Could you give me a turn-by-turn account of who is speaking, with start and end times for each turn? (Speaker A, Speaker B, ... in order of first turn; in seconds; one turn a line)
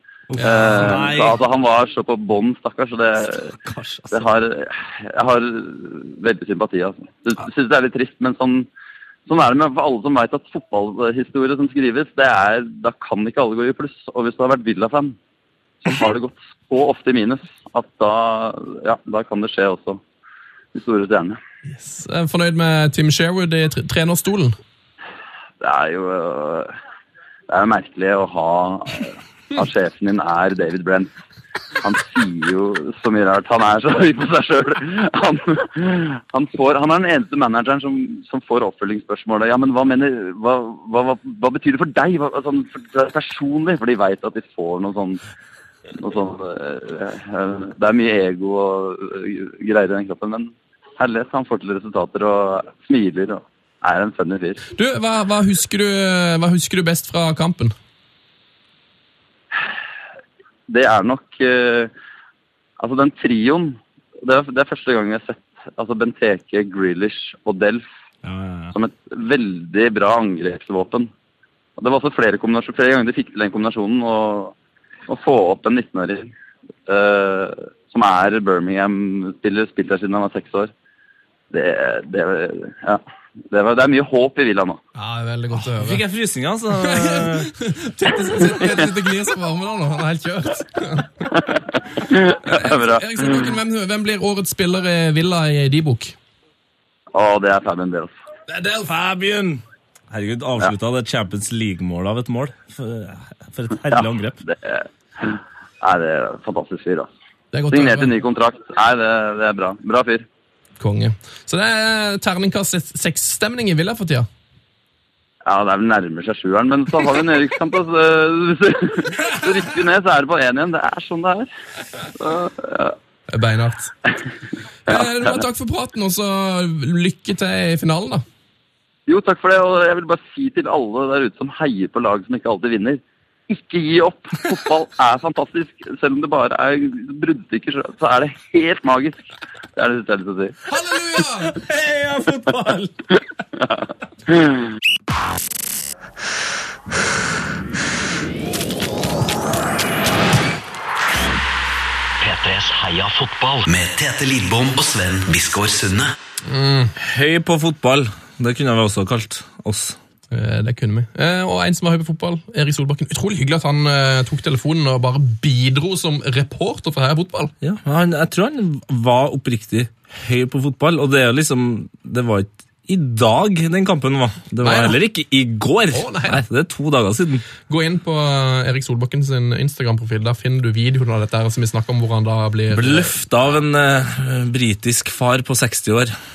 Speaker A: 0.3-1.4
Speaker B: 0.4-3.5
Speaker C: 0.4-0.7
Speaker A: 3.3-4.3
Speaker B: 4.1-8.7
Speaker B: 9.3-15.2
Speaker B: 15.8-20.0
Speaker B: 20.7-21.4
Speaker C: 21.7-24.6
Speaker B: 25.6-26.7
Speaker B: 27.5-31.1
Speaker B: 31.8-45.2
Speaker B: 46.0-54.6
Speaker C: 54.8-57.8
Speaker B: 60.7-61.9
Speaker B: 62.8-67.8
Speaker A: 68.2-68.7
Speaker B: 68.7-71.1
Speaker B: 71.8-74.5
Speaker B: 75.1-76.3
Speaker B: 76.9-80.7
Speaker B: 81.5-84.8
Speaker C: 85.0-86.0
Speaker A: 85.5-87.5
Speaker C: 86.8-91.1
Speaker B: 91.4-93.5
Speaker C: 92.4-96.2
Speaker B: 97.1-98.1
Speaker C: 98.5-98.8
Speaker A: 98.7-104.4
Speaker B: 103.9-107.1
Speaker C: 107.5-108.1
Speaker B: 107.7-110.3
Speaker C: 110.8-114.3
Speaker B: 115.5-121.5
Speaker B: 122.2-123.0
Speaker C: 123.3-123.9
Speaker C: 124.9-128.2
Speaker B: 129.1-140.6
Speaker C: 140.7-141.6
Speaker A: 141.4-143.0
Speaker D: 152.2-156.2
Speaker C: 156.5-156.9
Speaker A: 157.0-160.0
Speaker C: 160.3-167.5
Speaker A: 167.6-177.4
Speaker C: 174.6-175.0
Speaker C: 175.9-176.4
Speaker C: 177.7-183.2
Speaker A: 182.7-186.1